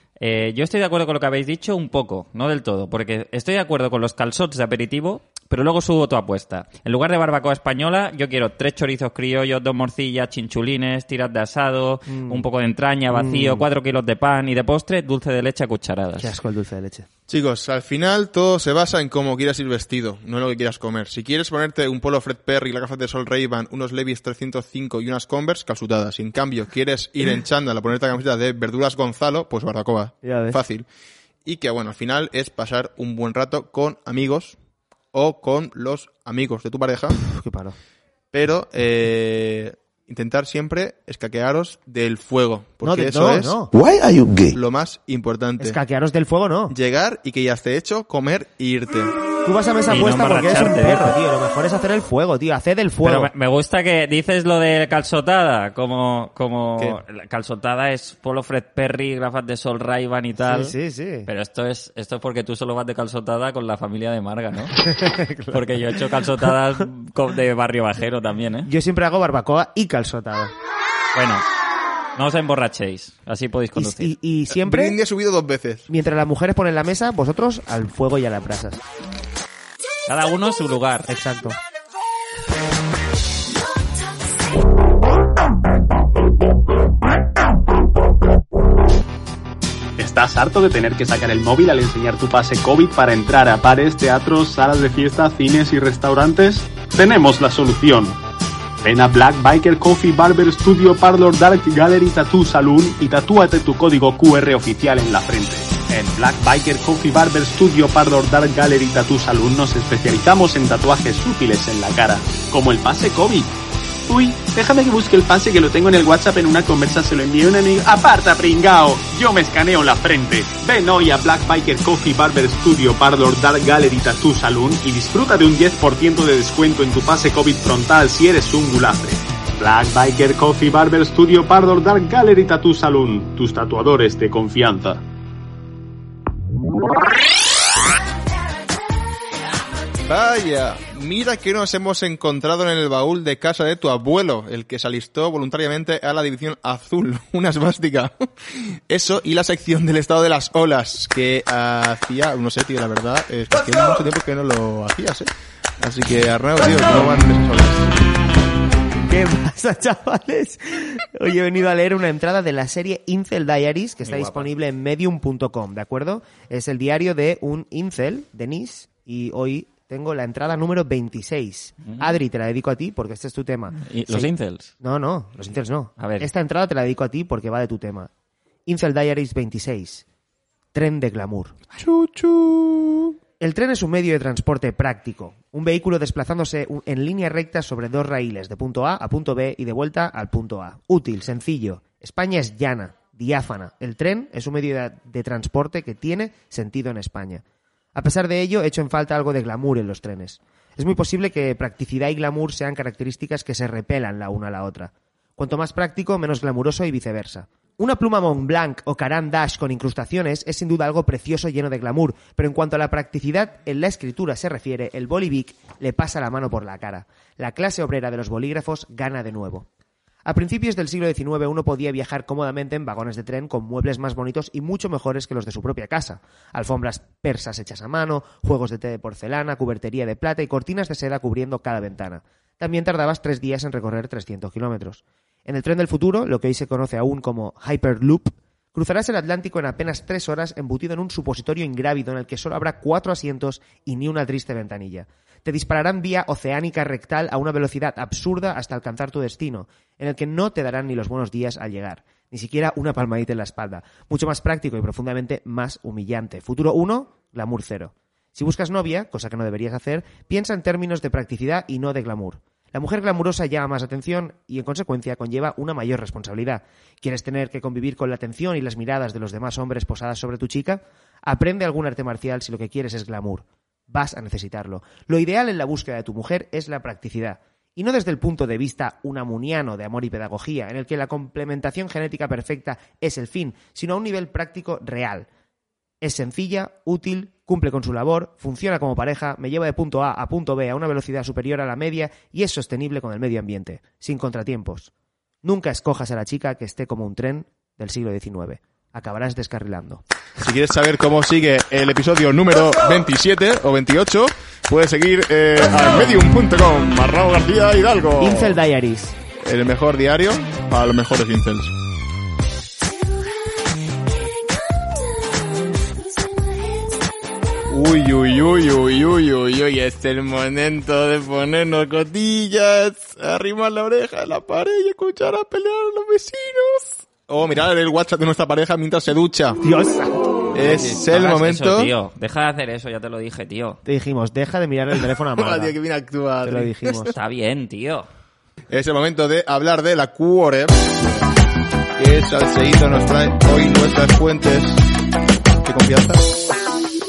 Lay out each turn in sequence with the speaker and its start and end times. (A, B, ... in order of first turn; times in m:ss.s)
0:00.2-0:16.3 A
0:12.1-0:12.5 B
0:13.1-0:13.6 B
0:16.2-0:17.1 B
0:17.3-0:30.8 C
0:30.2-0:30.6 B
0:31.4-0:34.6 C
0:35.1-0:37.2 C
0:37.2-0:37.8 B
0:38.3-0:45.8 C
0:42.8-0:43.7 B
0:45.6-0:46.7 B
0:46.7-0:49.1 C
0:49.4-0:53.3 B
0:49.9-0:51.2 A
0:53.0-1:00.7 A
1:00.4-1:01.3 B
1:01.3-1:04.8 A
1:04.8-1:05.8 B
1:05.5-1:08.7 A
1:08.6-1:10.5 B
1:11.1-1:11.4 A
1:12.2-1:14.1 A
1:13.7-1:15.0 B
1:14.5-1:15.8 C
1:15.9-1:18.8 B
1:20.1-1:21.1 A
1:21.1-1:21.6 B
1:30.0-1:38.2 D
1:38.8-1:53.5 D
1:54.1-2:15.0 D
2:20.1-2:37.9 C
2:39.0-2:58.1 B
2:44.0-2:44.5 A
2:53.8-2:54.7 A
2:56.0-2:56.3 A
2:58.6-3:00.0 B
3:00.7-3:01.6 B
3:01.8-3:03.1 C
3:03.4-3:17.4 B
3:17.9-3:39.7 B
3:40.2-4:45.3 B
4:46.0-4:54.9 B
4:55.4-5:00.0 B
5:00.4-5:08.6 C
5:08.2-5:09.2 B
5:09.4-5:11.7 C
5:17.7-5:29.6 C
5:29.6-5:30.8 B
5:30.5-5:31.9 C
5:30.9-5:33.8 A
5:33.8-5:35.8 B
5:35.3-5:37.1 C
5:36.4-5:37.1 B
5:37.1-5:38.1 A
5:38.7-5:41.2 C
5:42.0-5:44.8 C
5:45.6-5:46.3 C